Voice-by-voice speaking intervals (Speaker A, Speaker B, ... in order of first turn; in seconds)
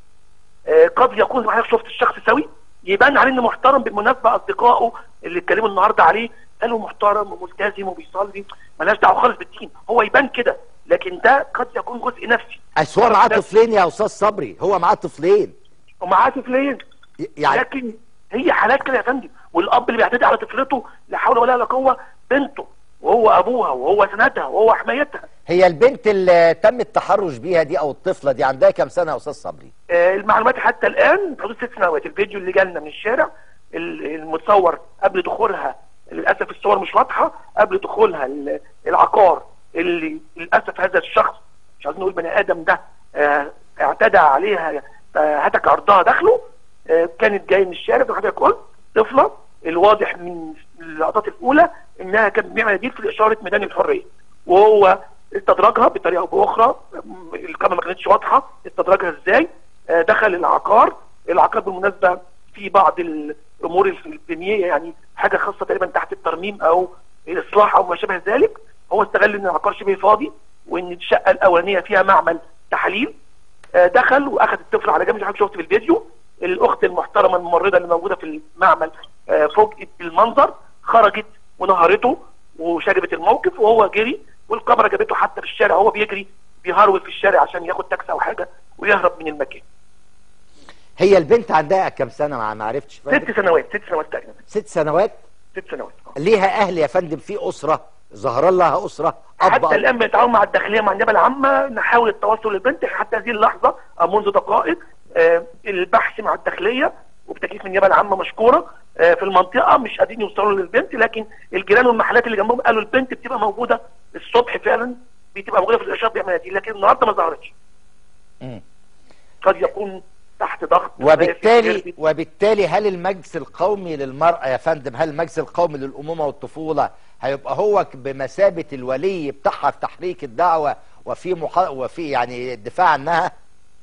Speaker A: 0.7-13.4, 16.0-16.8, 17.5-25.2, 29.9-73.1, 73.8-89.6, 93.1-94.4, 95.5-96.1, 99.4-117.5, 119.4-121.9
Speaker B: 12.8-15.5, 17.2-17.6, 25.5-29.7, 91.0-93.3, 94.5-95.2, 96.2-99.8, 121.0-133.3